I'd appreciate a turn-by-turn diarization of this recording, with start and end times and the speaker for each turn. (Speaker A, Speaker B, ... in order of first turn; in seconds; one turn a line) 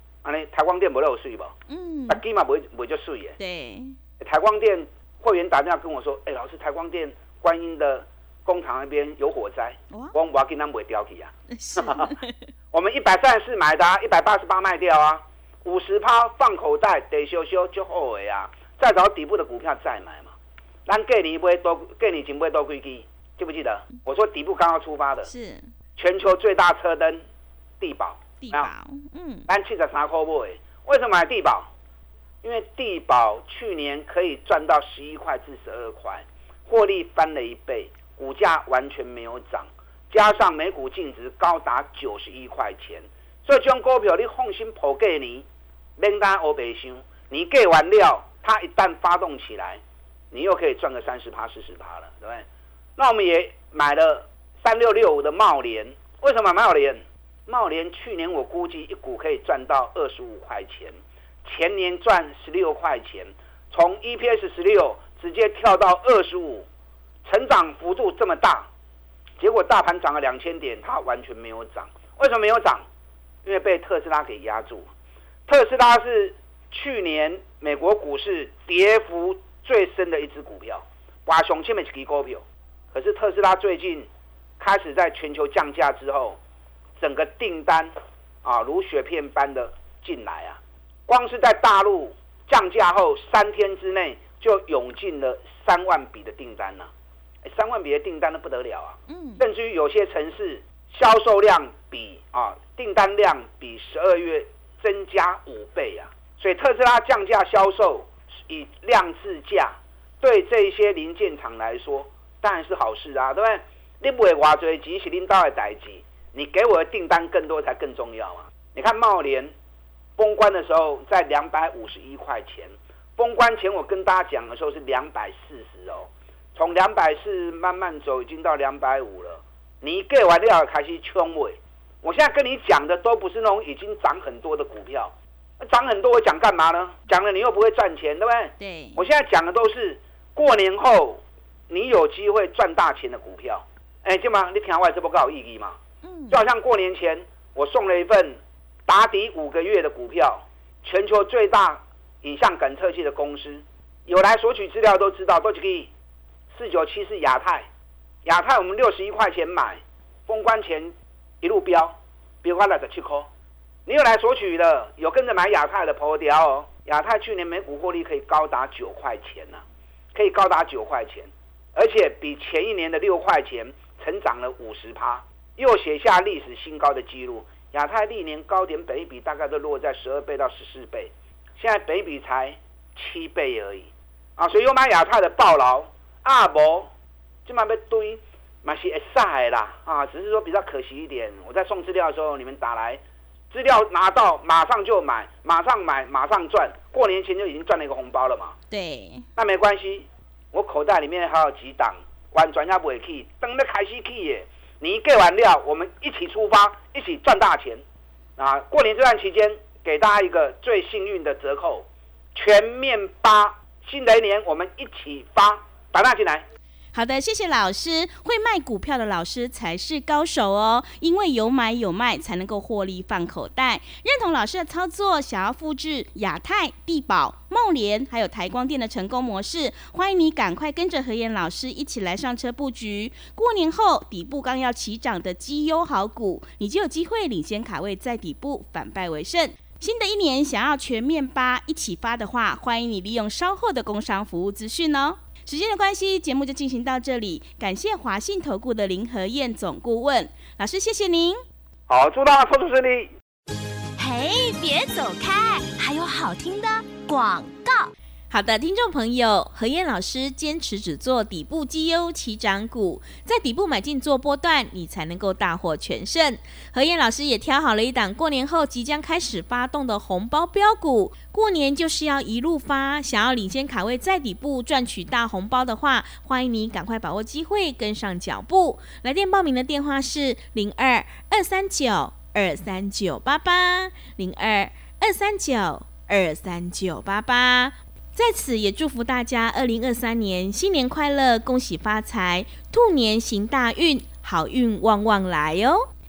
Speaker A: 0.2-1.6
Speaker B: 1.7-2.2
Speaker A: 2.1-3.4
Speaker B: 3.4-4.0
Speaker A: 4.2-12.1
Speaker B: 11.5-12.4
Speaker A: 12.7-20.3
Speaker A: 20.9-25.3
Speaker B: 25.2-25.7
Speaker A: 26.0-27.2
Speaker A: 27.8-28.7
Speaker B: 28.4-29.5
Speaker A: 29.5-31.7
Speaker A: 32.4-45.5
Speaker A: 46.0-49.8
Speaker A: 50.3-52.4
Speaker A: 53.0-66.7
Speaker A: 67.2-68.7
Speaker A: 69.4-72.8
Speaker A: 73.4-74.9
Speaker A: 75.5-84.1
Speaker A: 84.6-86.4
Speaker A: 87.0-87.9
Speaker A: 88.4-96.9
Speaker A: 97.4-119.5
Speaker B: 99.1-99.4
Speaker A: 120.2-145.8
Speaker B: 138.6-139.0
Speaker B: 146.0-146.4
Speaker A: 146.3-155.9
Speaker A: 156.5-157.7
Speaker A: 158.2-163.3
Speaker A: 163.8-169.6
Speaker A: 170.1-186.9
Speaker A: 187.4-198.6
Speaker B: 198.7-199.2
Speaker A: 199.3-207.8
Speaker A: 208.4-216.4
Speaker B: 216.9-251.4
Speaker A: 251.9-253.1
Speaker C: 254.0-257.9
Speaker B: 258.3-295.9